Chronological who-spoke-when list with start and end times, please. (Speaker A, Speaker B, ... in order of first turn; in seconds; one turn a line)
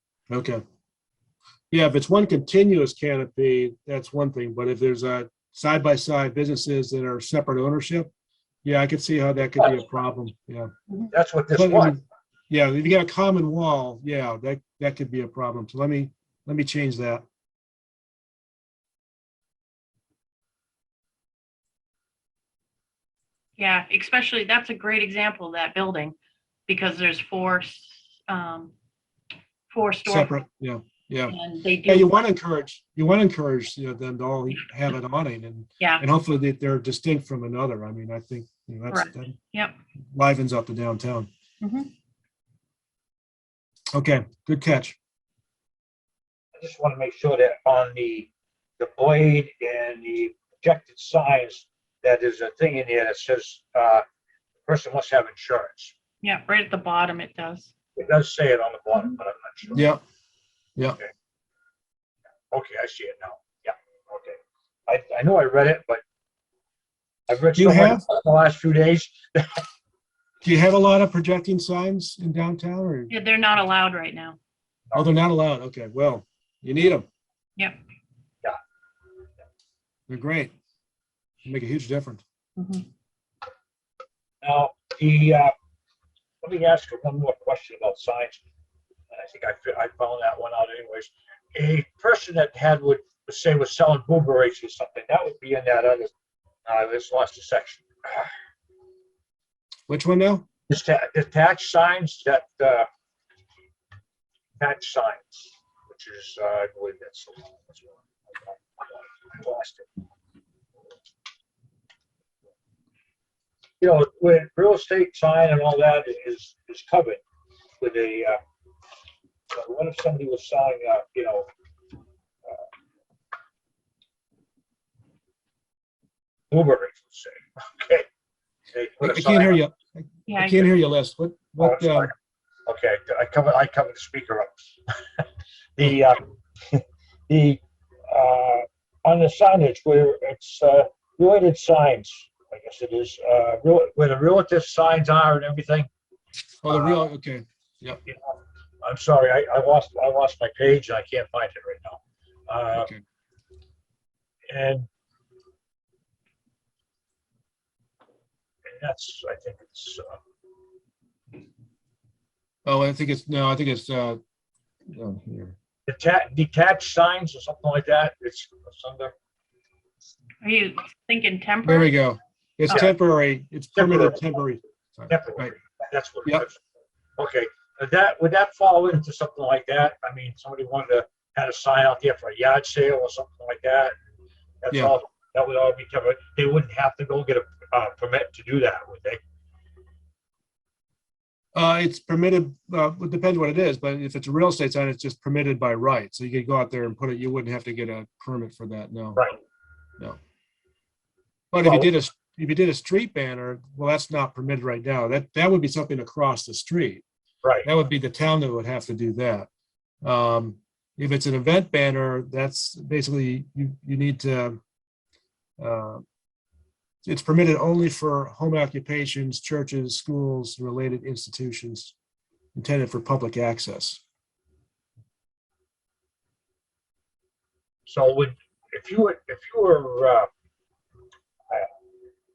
Speaker A: 0.3-0.6
Speaker A: 1.7-8.1
Speaker A: 8.6-10.7
Speaker B: 9.6-9.8
Speaker B: 11.1-12.0
Speaker A: 11.5-17.2
Speaker C: 23.6-26.1
Speaker C: 26.7-28.7
Speaker C: 29.7-30.3
Speaker A: 30.0-39.4
Speaker C: 31.3-32.2
Speaker C: 35.8-36.0
Speaker C: 38.9-39.8
Speaker A: 40.1-41.3
Speaker C: 41.6-41.9
Speaker A: 43.9-45.0
Speaker B: 46.5-54.0
Speaker B: 54.6-55.9
Speaker C: 56.2-57.7
Speaker B: 58.0-59.8
Speaker C: 58.9-59.2
Speaker A: 59.7-60.0
Speaker B: 62.5-66.0
Speaker B: 67.3-69.6
Speaker A: 67.5-68.0
Speaker A: 70.4-73.1
Speaker C: 73.1-74.4
Speaker A: 74.9-77.0
Speaker A: 80.1-80.5
Speaker A: 81.4-82.2
Speaker C: 82.6-82.8
Speaker B: 84.4-85.5
Speaker B: 86.4-88.4
Speaker B: 89.1-96.1
Speaker B: 96.7-98.3
Speaker A: 99.9-100.4
Speaker B: 100.7-102.9
Speaker B: 104.6-109.9
Speaker B: 113.8-117.2
Speaker B: 117.8-118.4
Speaker B: 119.5-121.5
Speaker B: 126.5-128.1
Speaker B: 128.7-129.6
Speaker A: 129.0-132.1
Speaker C: 130.3-130.7
Speaker B: 131.6-132.1
Speaker B: 132.7-135.2
Speaker B: 135.8-145.9
Speaker A: 146.6-148.0
Speaker B: 146.7-147.0
Speaker B: 148.1-152.9
Speaker A: 152.7-153.0
Speaker B: 154.5-154.9
Speaker B: 158.7-160.2
Speaker A: 162.7-164.2
Speaker A: 164.9-165.5
Speaker B: 165.9-169.1
Speaker C: 170.4-171.9
Speaker A: 171.6-175.5
Speaker B: 173.7-174.2
Speaker B: 175.1-176.6
Speaker B: 177.2-183.9
Speaker B: 184.6-189.2
Speaker A: 191.5-199.2
Speaker A: 201.5-207.0
Speaker B: 201.6-201.9
Speaker B: 207.4-207.7
Speaker A: 207.6-209.5
Speaker A: 210.0-214.6
Speaker A: 215.6-216.0
Speaker A: 217.0-221.9
Speaker A: 222.5-224.0
Speaker B: 227.9-230.3